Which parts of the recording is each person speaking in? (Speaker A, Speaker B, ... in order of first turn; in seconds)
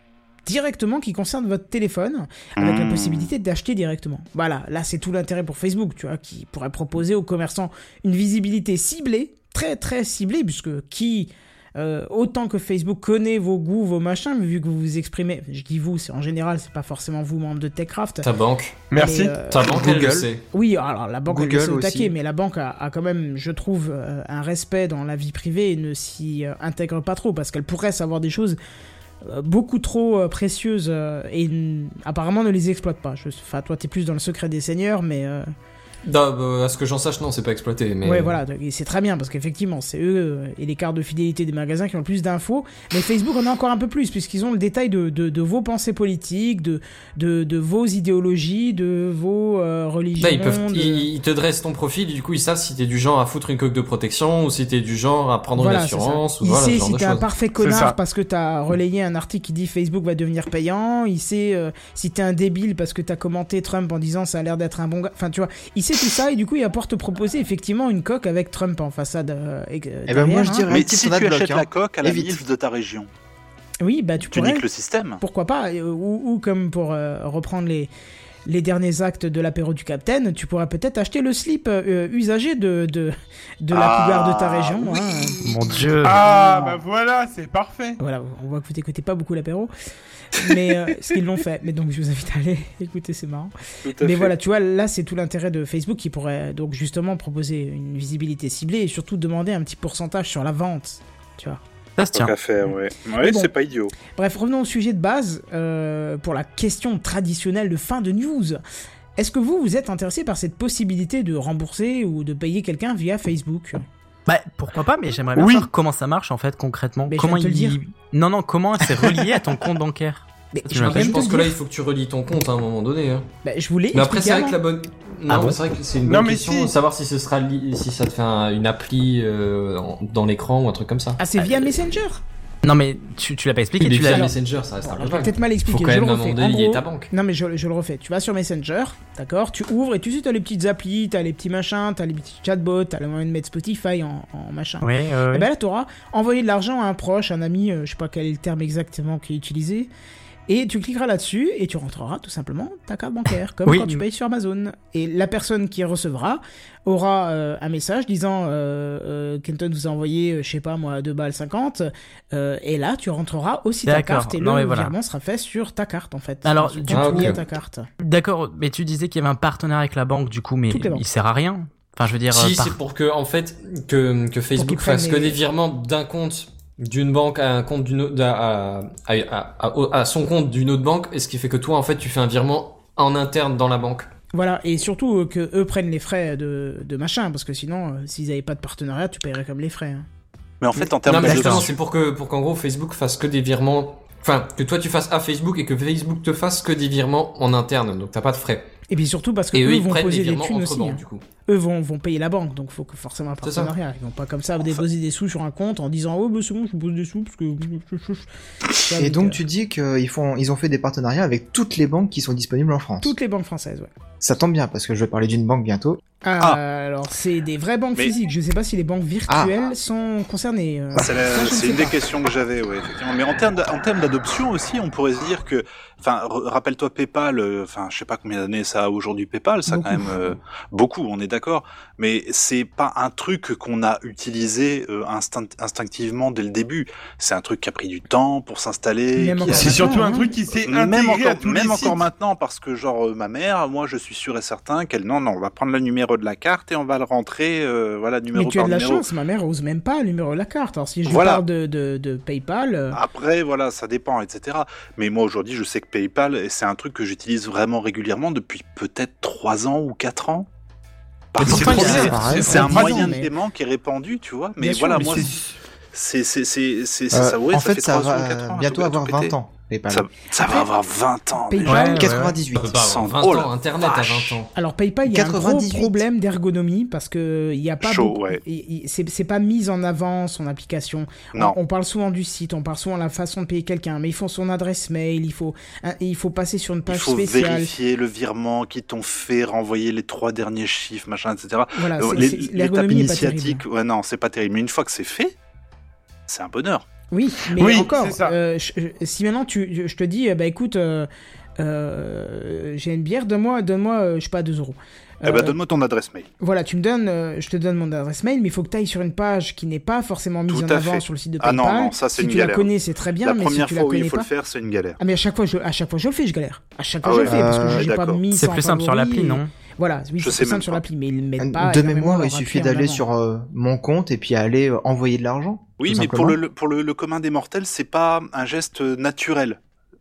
Speaker A: 0.5-18.3, 18.9-19.9, 20.5-28.6, 29.2-35.5, 38.0-51.1, 55.6-70.7, 73.8-74.7, 75.2-77.9, 78.5-86.8, 88.0-89.7, 90.4-101.6, 102.7-108.6, 109.2-113.8, 117.1-117.8, 120.5-121.6, 123.4-124.6, 131.2-132.2, 134.1-149.9, 150.5-167.9, 170.7-171.1, 174.6-175.4, 184.3-190.1, 198.9-208.3, 208.8-209.4, 213.0-213.9, 216.2-221.9, 239.2-240.3, 248.3-253.0, 261.4-263.3, 264.6-265.3, 270.4-270.7, 271.5-272.1, 274.6-287.7, 291.7-293.6, 297.1-301.1, 301.6-305.6, 306.4-314.3, 315.0-323.0
Speaker B: 2.6-3.3, 70.7-73.1, 74.3-75.2, 83.7-85.3, 93.8-94.3, 102.1-103.9, 190.6-191.8, 221.0-240.0, 240.6-249.0, 251.1-251.4, 252.9-260.5, 261.3-265.4, 265.9-269.3, 269.9-274.4, 277.8-278.4, 286.9-295.3, 296.3-296.9, 305.2-306.3, 310.5-315.0, 317.0-318.2, 320.2-320.8, 325.8-329.6
Speaker C: 18.2-18.8, 19.5-20.4, 36.0-38.4, 50.2-57.2, 120.8-123.3, 123.9-131.2, 133.8-137.1, 166.9-167.4, 172.3-184.1, 191.1-198.7, 199.5-201.2, 203.4-203.7, 272.5-274.5
Speaker D: 18.9-19.4, 57.6-58.0, 86.0-88.0, 115.4-115.7, 126.0-126.7, 239.5-242.0, 297.6-298.4
Speaker E: 19.6-20.3, 21.3-22.1, 70.1-72.4, 208.9-213.2, 214.2-216.0, 261.5-263.1, 267.1-270.1, 272.0-272.8, 275.1-276.0, 317.2-317.9, 321.4-326.4
Speaker F: 85.4-86.2, 102.0-102.3, 114.3-121.3, 125.3-125.6, 131.4-131.7, 132.6-134.3, 144.8-145.5, 153.7-154.0, 163.9-164.9, 166.4-167.4, 168.0-172.8, 191.2-191.6, 261.4-262.7, 271.6-272.4, 318.3-319.5